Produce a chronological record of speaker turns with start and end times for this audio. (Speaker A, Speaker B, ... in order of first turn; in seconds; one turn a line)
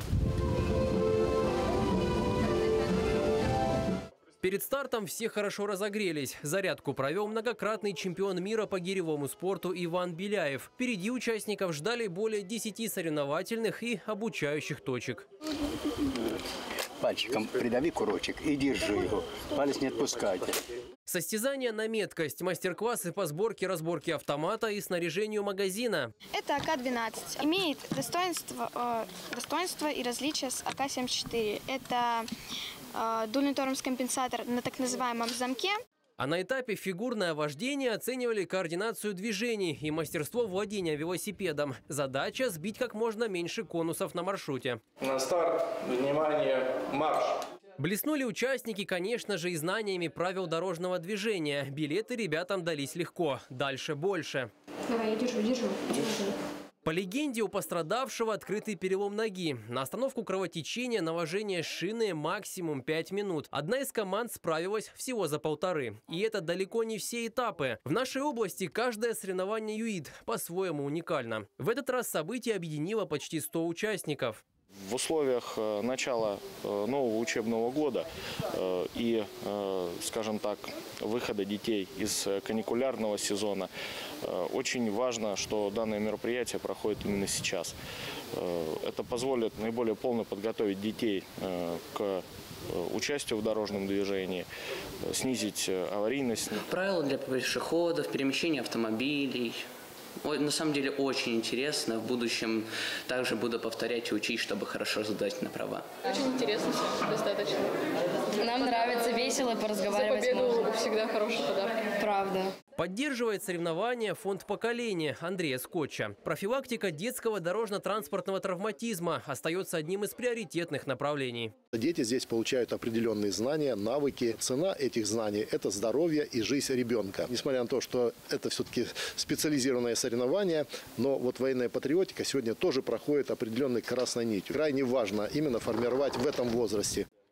Speaker A: 4.4-15.2
Speaker B: 17.0-20.6
Speaker A: 21.1-26.1
Speaker C: 26.3-32.3
Speaker C: 32.9-35.8
Speaker A: 36.2-44.8
Speaker D: 45.0-47.0
Speaker A: 47.8-54.5
Speaker C: 54.9-56.3
Speaker A: 56.8-74.4
Speaker E: 74.8-83.7
Speaker E: 84.2-87.7
Speaker E: 88.3-94.5
Speaker E: 95.0-96.6
Speaker F: 96.7-99.7
Speaker F: 100.2-105.9
Speaker G: 106.0-107.7
Speaker H: 108.3-110.8
Speaker G: 108.6-109.1
Speaker G: 110.0-111.8
Speaker H: 111.8-112.5
Speaker A: 112.8-121.5
Speaker I: 121.7-137.1